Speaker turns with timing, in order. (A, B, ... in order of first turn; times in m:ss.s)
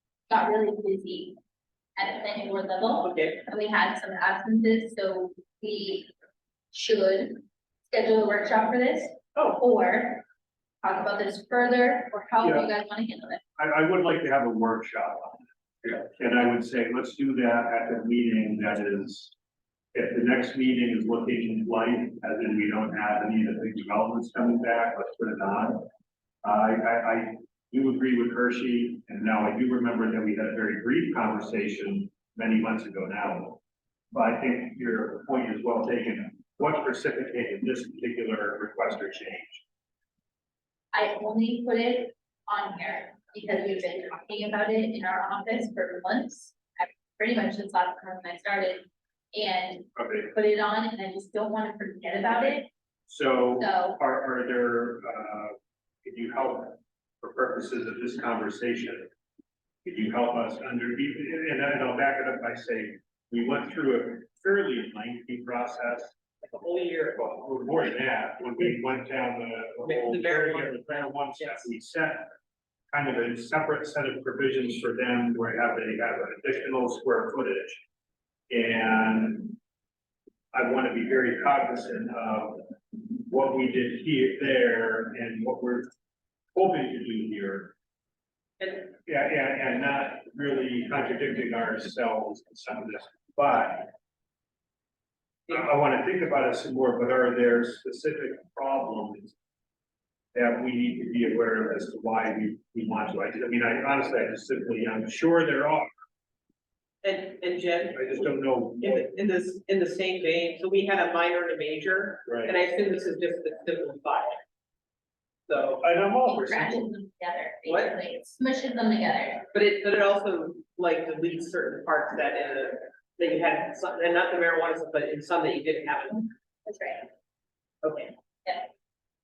0:00.3-0:01.4 A
0:02.0-0:06.1 A
0:03.0-0:03.4 B
0:06.7-0:10.2 A
0:10.8-0:13.4 A
0:12.4-0:12.7 C
0:13.6-0:19.3 C
0:19.9-0:25.9 C
0:26.4-0:33.6 C
0:34.1-0:39.6 C
0:40.9-0:52.7 A
0:50.0-0:50.3 C
0:53.1-0:59.1 C
0:53.6-0:54.0 A
0:59.8-1:06.1 C
1:06.4-1:07.5 B
1:07.2-1:12.3 C
1:09.8-1:11.7 B
1:12.9-1:17.8 C
1:18.5-1:19.6 C
1:20.5-1:25.9 C
1:26.5-1:27.7 C
1:28.9-1:33.9 C
1:35.5-1:39.3 C
1:40.3-1:45.9 C
1:47.0-1:48.1 B
1:47.9-1:49.0 C
1:48.8-1:54.4 B
1:52.2-1:52.6 C
1:55.5-1:55.8 B
1:55.8-1:56.9 C
1:56.2-1:59.4 A
1:57.7-1:58.3 B
1:59.5-2:06.3 B
2:06.6-2:07.0 A
2:07.8-2:08.1 B